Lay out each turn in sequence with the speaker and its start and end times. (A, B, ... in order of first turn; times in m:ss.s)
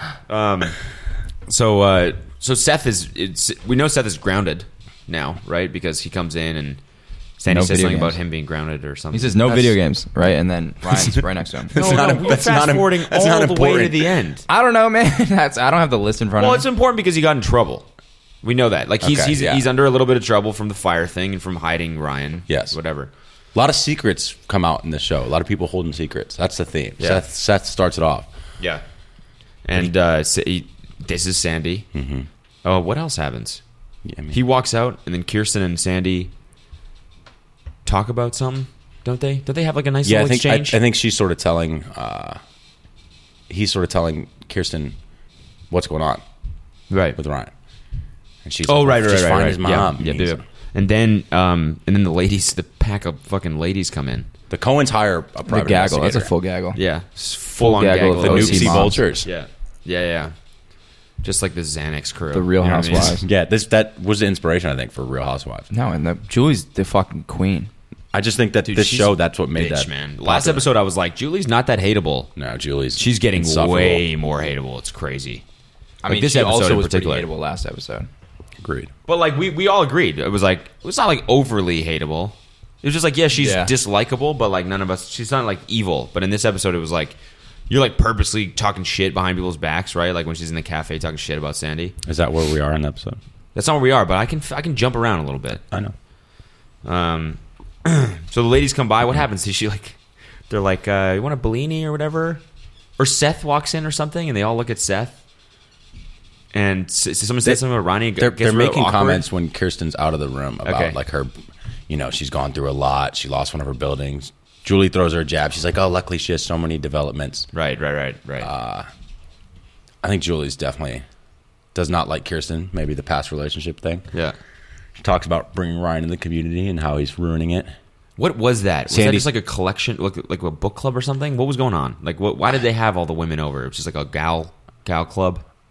0:00.3-0:00.8 A
0:01.4-0:06.8 A
0:07.4-0:09.8 A
0:07.5-0:08.2 B
0:09.1-0:12.1 B
0:11.7-0:14.4 A
0:11.7-0:14.1 C
0:14.5-0:16.6 B
0:16.4-0:17.8 A
0:18.4-0:23.1 A
0:19.0-0:19.6 C
0:22.5-0:22.8 C
0:23.5-0:28.3 C
0:29.6-0:31.8 A
0:31.9-0:32.3 C
0:32.6-0:33.6 A
0:34.0-0:34.4 C
0:34.3-0:36.3 A
0:37.8-0:40.8 A
0:40.0-0:42.4 C
0:43.5-0:44.9 C
0:45.7-0:46.2 C
0:46.9-0:47.2 A
0:47.2-0:47.5 C
0:48.4-0:50.4 C
0:48.6-0:54.3 A
0:54.5-0:56.3 C
0:55.4-0:56.8 B
0:56.7-1:00.3 A
0:57.6-0:59.0 B
0:58.2-0:59.3 C
1:01.2-1:03.2 A
1:02.3-1:03.2 B
1:02.9-1:05.7 C
1:05.7-1:07.7 B
1:08.1-1:10.7 C
1:08.7-1:09.1 B
1:09.5-1:12.3 A
1:12.4-1:14.0 C
1:13.0-1:15.4 A
1:16.0-1:18.1 B
1:16.1-1:17.3 A
1:18.6-1:18.9 C
1:19.0-1:27.2 A
1:23.4-1:23.7 B
1:27.7-1:31.9 A
1:32.0-1:33.2 C
1:33.5-1:35.6 A
1:36.8-1:40.0 A
1:40.5-1:42.4 A
1:43.0-1:45.2 A
1:46.5-1:49.2 A
1:48.2-1:51.4 C
1:50.6-1:51.0 A
1:51.9-1:57.5 C
1:57.5-1:58.5 A
1:58.4-1:58.9 C
2:00.0-2:01.0 C
2:01.7-2:04.0 C
2:05.0-2:07.7 C
2:08.2-2:15.4 A
2:08.9-2:09.3 C